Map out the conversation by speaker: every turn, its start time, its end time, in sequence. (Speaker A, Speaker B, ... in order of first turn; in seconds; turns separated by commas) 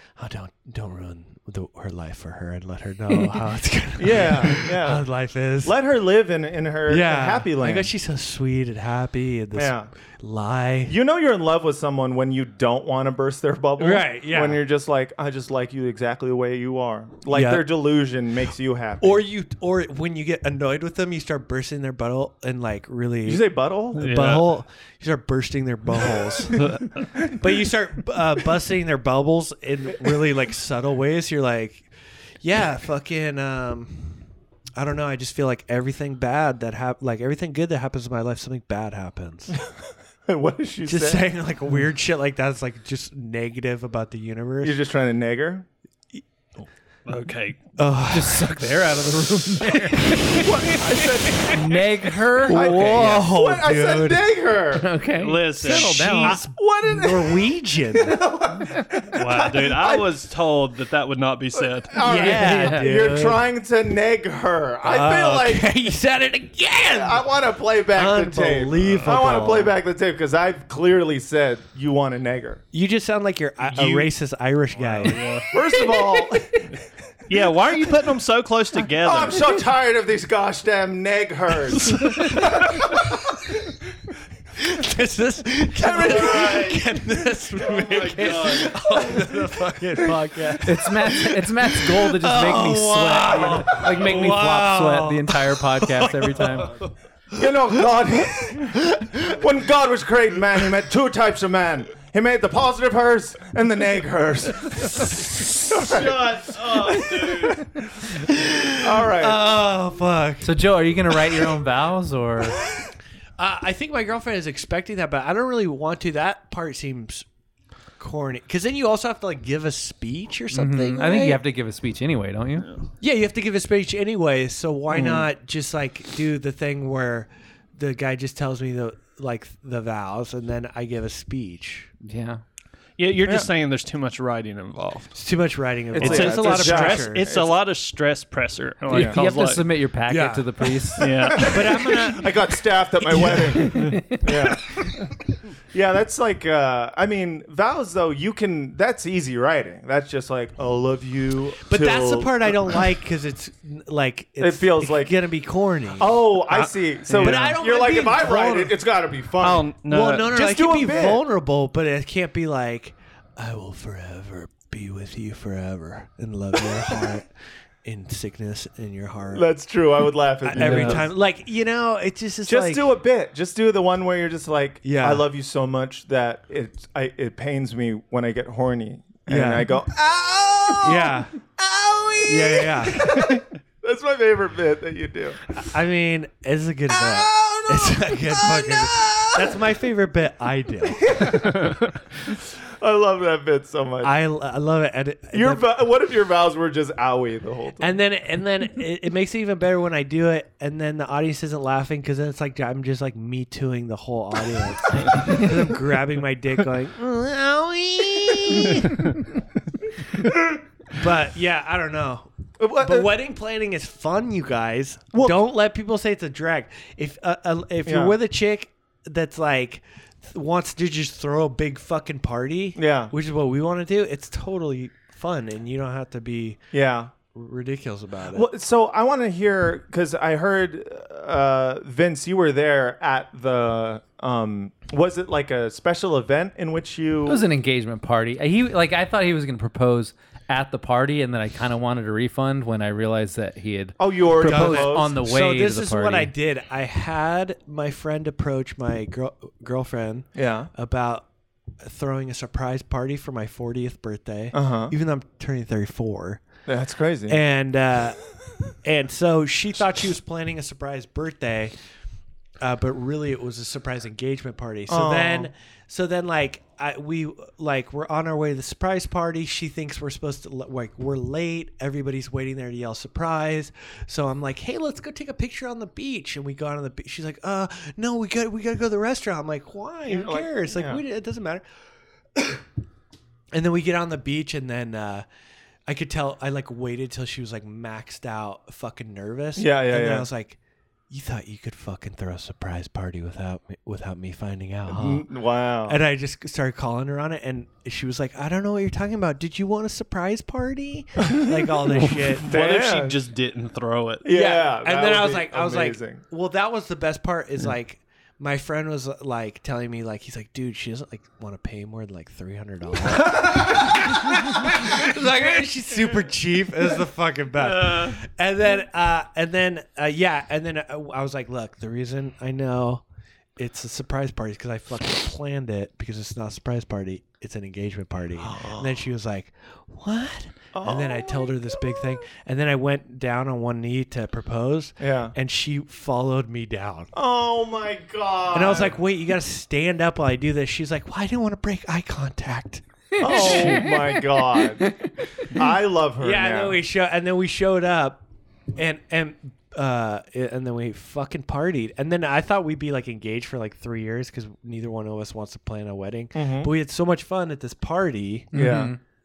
Speaker A: 0.2-5.8, Speaker B: 4.0-5.0, Speaker B: 5.6-7.9, Speaker A: 6.9-10.9, Speaker B: 9.5-9.9, Speaker B: 10.9-19.2, Speaker A: 13.8-14.6, Speaker A: 17.3-17.7, Speaker A: 19.0-26.6, Speaker B: 23.2-24.1, Speaker C: 24.0-24.5, Speaker C: 26.5-27.1, Speaker A: 27.3-31.9, Speaker A: 32.4-34.2, Speaker A: 34.8-39.6, Speaker B: 40.2-41.3, Speaker A: 40.9-44.8, Speaker B: 44.6-45.7, Speaker C: 47.0-47.7, Speaker A: 47.8-48.7, Speaker D: 48.1-50.5, Speaker B: 50.3-51.9, Speaker D: 51.4-53.0, Speaker A: 52.4-54.2, Speaker B: 52.5-54.9, Speaker C: 53.0-53.2, Speaker D: 54.7-56.4, Speaker C: 55.2-56.4, Speaker A: 55.6-58.2, Speaker B: 56.2-60.1, Speaker C: 59.1-62.1, Speaker B: 61.5-65.7, Speaker A: 62.0-63.4, Speaker D: 62.1-62.9, Speaker A: 64.8-67.2, Speaker B: 66.9-72.6, Speaker A: 67.9-69.7, Speaker A: 72.7-76.2, Speaker C: 73.7-74.1, Speaker C: 74.8-75.5, Speaker B: 75.5-76.7, Speaker C: 77.3-79.5, Speaker B: 79.0-83.5, Speaker A: 84.5-96.8, Speaker B: 85.8-86.9, Speaker C: 87.7-88.7, Speaker B: 88.2-89.3, Speaker D: 90.6-96.8, Speaker B: 97.3-107.8, Speaker C: 105.8-107.6, Speaker A: 108.1-111.5, Speaker B: 108.8-109.5, Speaker D: 110.4-112.6, Speaker A: 113.4-117.2, Speaker A: 118.0-121.4, Speaker D: 120.5-122.7, Speaker A: 123.0-131.9, Speaker B: 124.9-125.3, Speaker D: 132.0-132.4, Speaker C: 133.0-135.1, Speaker A: 135.1-137.3, Speaker B: 135.9-137.5, Speaker C: 135.9-139.7, Speaker D: 138.9-141.5, Speaker B: 138.9-139.2, Speaker A: 140.1-142.3, Speaker C: 141.0-141.9, Speaker B: 141.2-145.1, Speaker A: 143.0-143.8, Speaker D: 143.4-144.3, Speaker C: 143.7-144.0, Speaker B: 145.7-152.9, Speaker A: 151.7-158.8, Speaker B: 154.4-155.1, Speaker B: 155.9-159.7, Speaker C: 157.1-157.6, Speaker C: 159.4-160.3, Speaker A: 159.8-167.3, Speaker B: 160.2-161.2, Speaker A: 167.8-169.5, Speaker B: 169.3-171.1, Speaker A: 170.4-172.9, Speaker C: 170.6-171.0, Speaker B: 172.5-185.4, Speaker A: 174.8-175.3, Speaker A: 179.3-179.7, Speaker A: 180.8-181.3, Speaker A: 182.2-183.4, Speaker A: 185.5-191.4, Speaker B: 186.9-189.6, Speaker B: 191.0-191.7, Speaker C: 191.4-191.8, Speaker B: 192.8-194.2, Speaker A: 194.0-195.7, Speaker B: 195.3-197.9, Speaker A: 197.8-209.0, Speaker A: 210.9-226.6, Speaker B: 212.6-213.1, Speaker B: 215.1-215.4, Speaker B: 217.9-218.2, Speaker B: 222.8-223.1, Speaker B: 226.7-227.1, Speaker A: 227.3-228.5, Speaker B: 228.3-237.5, Speaker D: 237.3-246.3, Speaker B: 244.0-245.1, Speaker A: 244.4-251.2, Speaker B: 250.3-250.7, Speaker A: 251.8-256.4, Speaker B: 254.5-254.9, Speaker B: 256.6-257.4, Speaker A: 257.3-258.2, Speaker A: 258.8-261.7, Speaker A: 262.6-281.6, Speaker B: 264.9-265.5, Speaker B: 280.1-281.0, Speaker A: 283.5-285.2, Speaker A: 285.9-290.6, Speaker B: 289.6-290.3, Speaker A: 291.1-295.3, Speaker B: 294.9-296.0, Speaker A: 295.9-302.5, Speaker C: 302.1-304.2, Speaker B: 302.4-303.2, Speaker B: 304.2-306.2, Speaker A: 304.3-323.0, Speaker B: 313.4-313.7, Speaker A: 323.6-337.1, Speaker B: 328.4-329.0, Speaker B: 330.7-331.5, Speaker B: 335.0-335.4, Speaker B: 337.1-339.0, Speaker A: 338.5-343.9, Speaker B: 343.2-344.9, Speaker D: 343.2-345.4, Speaker B: 345.5-346.8, Speaker A: 346.2-348.2, Speaker A: 348.7-358.5, Speaker B: 356.3-356.7, Speaker D: 358.5-359.0, Speaker B: 358.5-358.9